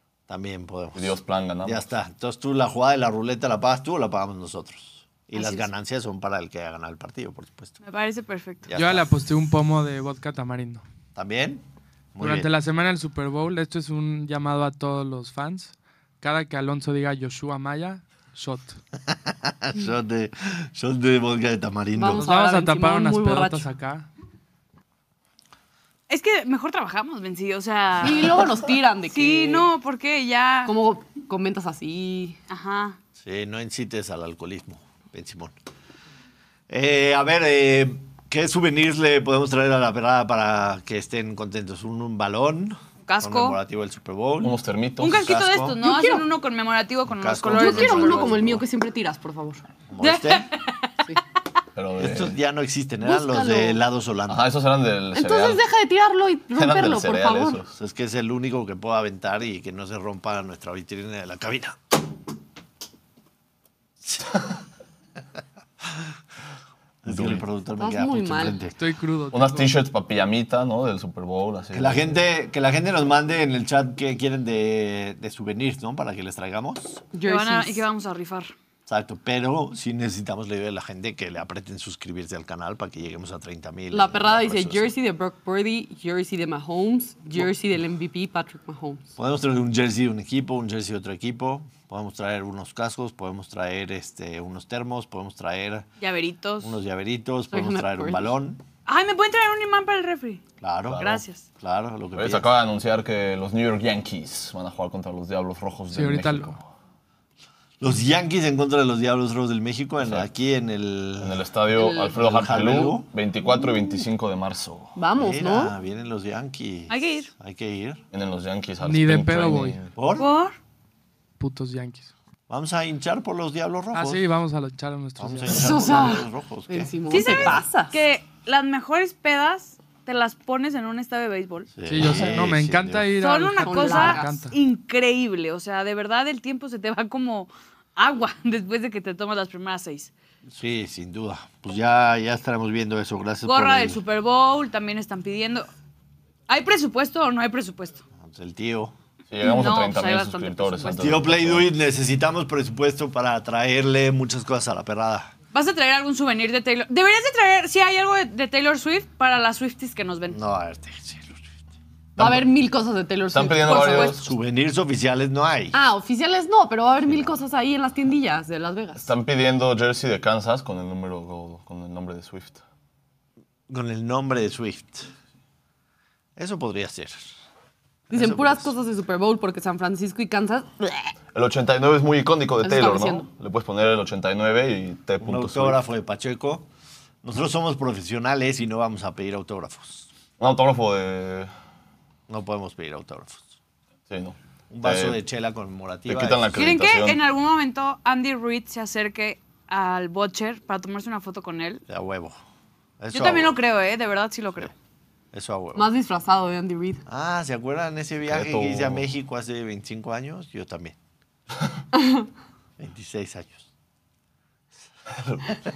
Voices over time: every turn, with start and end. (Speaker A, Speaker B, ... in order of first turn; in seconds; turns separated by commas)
Speaker A: 0.3-7.8, Speaker B: 0.9-1.9, Speaker C: 5.4-5.6, Speaker C: 7.8-8.7, Speaker A: 8.7-9.1, Speaker D: 8.7-10.8, Speaker A: 11.2-11.6, Speaker A: 12.2-12.5, Speaker D: 12.2-18.8, Speaker A: 19.1-22.3, Speaker E: 22.0-23.7, Speaker D: 22.2-24.1, Speaker C: 26.1-28.4, Speaker E: 28.0-29.7, Speaker C: 29.1-30.7, Speaker E: 30.7-32.4, Speaker C: 32.5-33.0, Speaker A: 33.2-35.5, Speaker A: 36.7-45.8, Speaker C: 43.1-43.6, Speaker B: 44.4-45.2, Speaker C: 45.0-48.4, Speaker E: 45.8-46.2, Speaker A: 47.1-48.6, Speaker E: 47.5-49.6, Speaker A: 49.9-50.5, Speaker C: 50.0-50.9, Speaker B: 51.7-52.4, Speaker A: 52.0-54.4, Speaker E: 53.0-53.8, Speaker B: 54.3-55.6, Speaker E: 55.1-57.6, Speaker B: 56.5-57.7, Speaker A: 57.8-61.8, Speaker A: 64.0-64.3, Speaker A: 67.0-68.8, Speaker B: 67.0-67.4, Speaker E: 67.8-68.6, Speaker D: 68.8-69.8, Speaker B: 69.3-72.2, Speaker A: 71.7-77.0, Speaker E: 77.1-77.8, Speaker C: 77.3-78.5, Speaker A: 78.9-85.0, Speaker E: 83.9-89.0, Speaker A: 89.2-95.9, Speaker C: 96.0-96.8, Speaker A: 96.6-98.6, Speaker E: 97.5-98.3, Speaker C: 98.9-101.4, Speaker A: 100.6-102.5, Speaker B: 100.9-101.2, Speaker B: 102.2-106.7, Speaker D: 105.9-106.6, Speaker A: 107.8-111.4, Speaker B: 110.0-110.3, Speaker B: 111.2-115.0, Speaker E: 111.8-112.2, Speaker A: 112.1-113.1, Speaker E: 115.0-115.7, Speaker A: 115.2-118.0, Speaker C: 116.9-117.3, Speaker B: 118.1-119.9, Speaker D: 118.8-119.9, Speaker A: 120.0-120.3, Speaker C: 120.2-120.6, Speaker D: 121.4-122.1, Speaker A: 122.5-124.2, Speaker D: 123.9-126.0, Speaker A: 125.2-127.6, Speaker E: 125.5-128.0, Speaker C: 127.1-131.7, Speaker A: 131.8-133.1, Speaker D: 131.9-134.6, Speaker B: 132.0-132.5, Speaker C: 133.2-140.1, Speaker E: 133.6-134.4, Speaker A: 140.5-144.0, Speaker C: 143.4-145.7, Speaker C: 146.5-148.0, Speaker A: 148.2-148.9, Speaker B: 149.3-151.7, Speaker C: 149.4-151.3, Speaker A: 151.0-155.3, Speaker C: 155.5-160.4, Speaker A: 160.3-161.5, Speaker B: 162.2-162.5, Speaker E: 162.2-164.1, Speaker B: 163.3-164.3, Speaker C: 163.7-164.2, Speaker A: 164.1-165.8, Speaker E: 165.7-169.1, Speaker A: 167.1-167.4, Speaker B: 169.0-172.6, Speaker A: 173.7-175.1, Speaker A: 176.4-177.3, Speaker A: 178.1-178.7, Speaker E: 178.1-181.1, Speaker B: 181.3-185.8, Speaker E: 182.6-183.3, Speaker A: 185.2-186.7, Speaker A: 187.2-190.1, Speaker B: 190.4-191.5, Speaker A: 192.3-193.5, Speaker B: 194.1-195.2, Speaker A: 194.7-196.5, Speaker B: 196.1-197.2, Speaker C: 196.6-201.8, Speaker A: 201.9-202.4, Speaker A: 203.0-203.6, Speaker C: 203.1-204.7, Speaker A: 205.3-205.9, Speaker E: 205.8-207.0, Speaker A: 207.1-211.0, Speaker B: 208.3-209.0, Speaker E: 212.0-212.2, Speaker A: 212.8-213.7